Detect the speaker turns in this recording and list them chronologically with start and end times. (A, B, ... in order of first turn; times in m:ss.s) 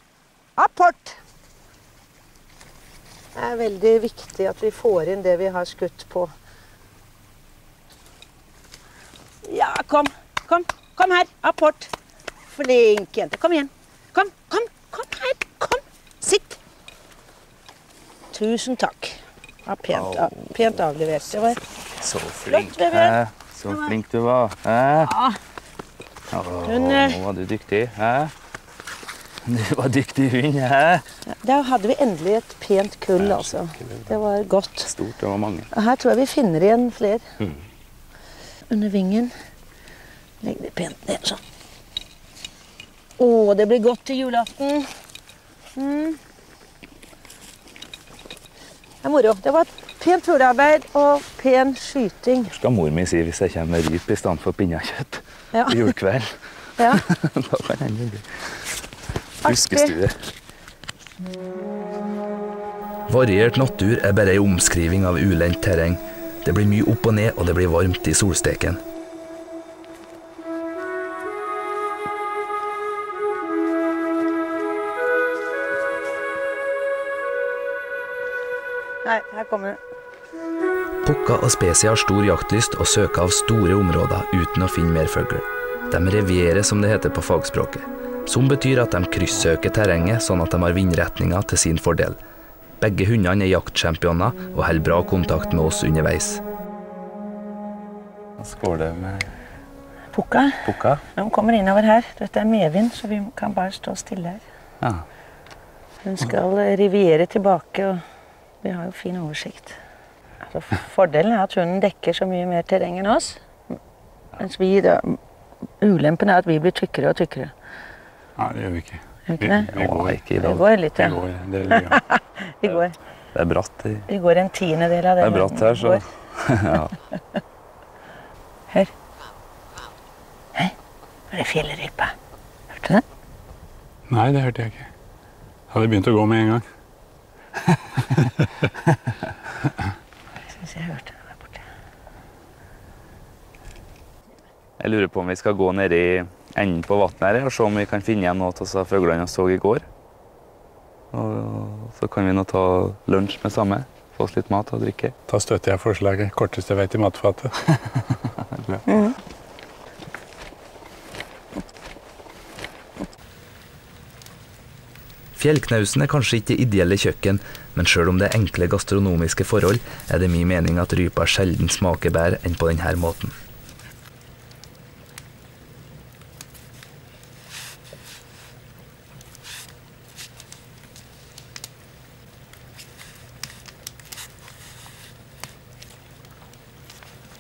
0:00.6-0:01.2 A
0:03.4-0:06.3 A
0:09.4-0:11.9 A
0:12.5-0:16.6 A
0:18.3-0:21.6 A
0:19.9-0:20.8 B
0:21.5-0:25.1 B
0:22.5-0:23.2 A
0:25.1-0:25.4 A
0:26.3-0:28.3 B
0:26.7-0:27.2 A
0:29.4-0:31.1 B
0:31.3-0:34.9 A
0:33.2-0:34.1 B
0:34.9-0:35.7 B
0:35.7-0:37.2 A
0:38.7-0:39.3 A
0:40.4-0:41.4 A
0:43.2-0:44.9 A
0:45.8-0:46.2 A
0:49.0-0:52.5 A
0:52.5-0:58.4 B
0:55.5-0:55.9 A
0:56.8-0:57.0 A
0:59.4-1:00.0 A
0:59.5-1:00.2 B
1:03.1-1:08.8 C
1:19.0-1:19.8 A
1:21.0-1:32.2 C
1:32.8-1:36.4 C
1:38.4-1:39.3 B
1:40.1-1:40.6 A
1:40.6-1:41.0 B
1:41.2-1:44.4 A
1:46.0-1:48.0 A
1:48.6-1:49.8 A
1:50.5-1:53.4 A
1:54.4-1:55.2 A
1:55.8-1:57.5 A
1:58.4-2:00.2 D
1:59.3-1:59.7 A
1:59.7-2:00.6 B
2:00.4-2:03.0 A
2:01.0-2:02.0 D
2:03.3-2:04.1 B
2:04.1-2:06.0 A
2:05.2-2:06.9 B
2:11.3-2:12.2 A
2:12.7-2:13.0 A
2:14.1-2:14.9 D
2:15.7-2:16.6 D
2:18.1-2:18.4 D
2:20.6-2:21.6 A
2:24.8-2:29.9 B
2:31.1-2:35.2 B
2:35.3-2:37.5 D
2:38.4-2:38.8 B
2:38.9-2:39.2 A
2:45.4-2:53.3 C